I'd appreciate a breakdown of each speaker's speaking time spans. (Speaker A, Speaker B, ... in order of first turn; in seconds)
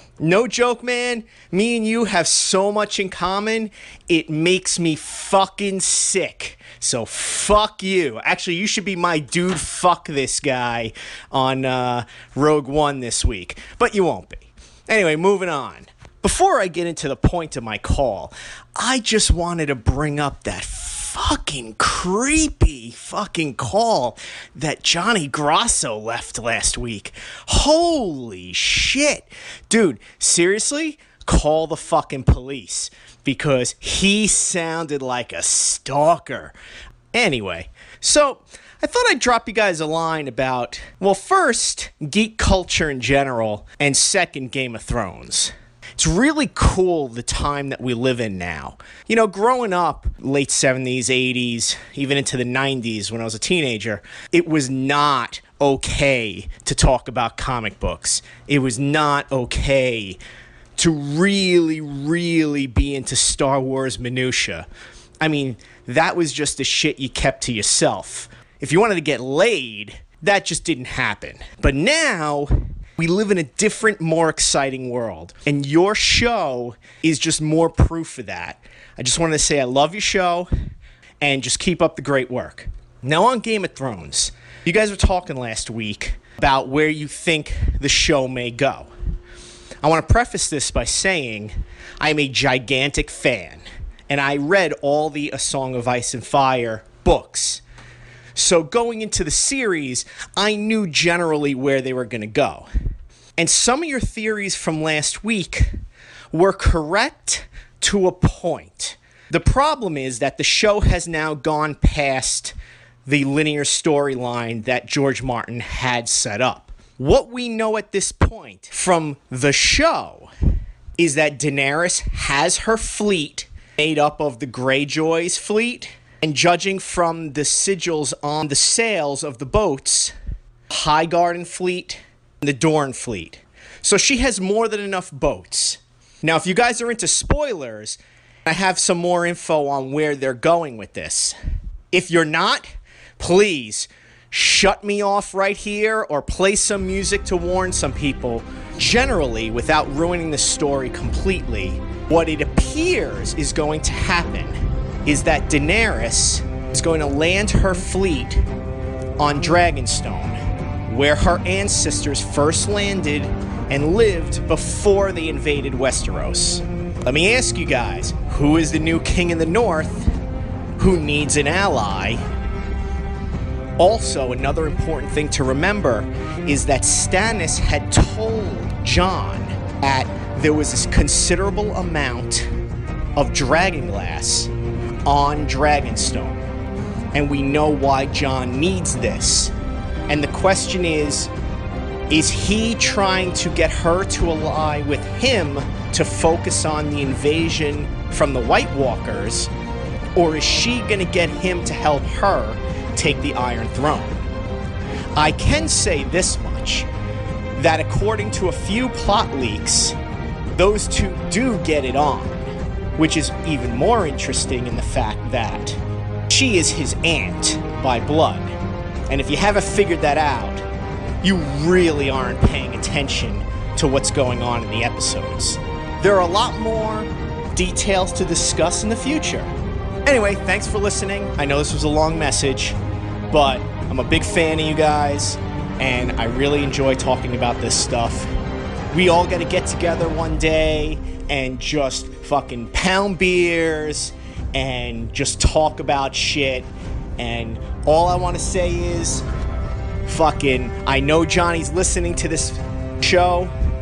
Speaker A: 0.2-36.5, 37.1-60.2, 60.8-64.7, 65.2-80.5, 81.2-88.9, 89.8-97.6, 98.3-102.7, 103.4-105.7, 106.3-112.5, 113.0-120.3, 121.0-130.1, 130.7-141.3, 141.9-158.4, 159.2-170.1, 170.8-172.2, 173.8-182.5, 183.2-184.5, 185.1-186.4, 187.1-189.5, 190.1-191.3, 192.1-199.5, 200.2-204.2, 205.2-206.9, 207.6-209.9, 210.5-215.8, 216.3-218.5, 219.1-220.6, 221.2-229.5, 230.1-232.8, 233.3-238.3, 238.9-249.2, 250.1-253.5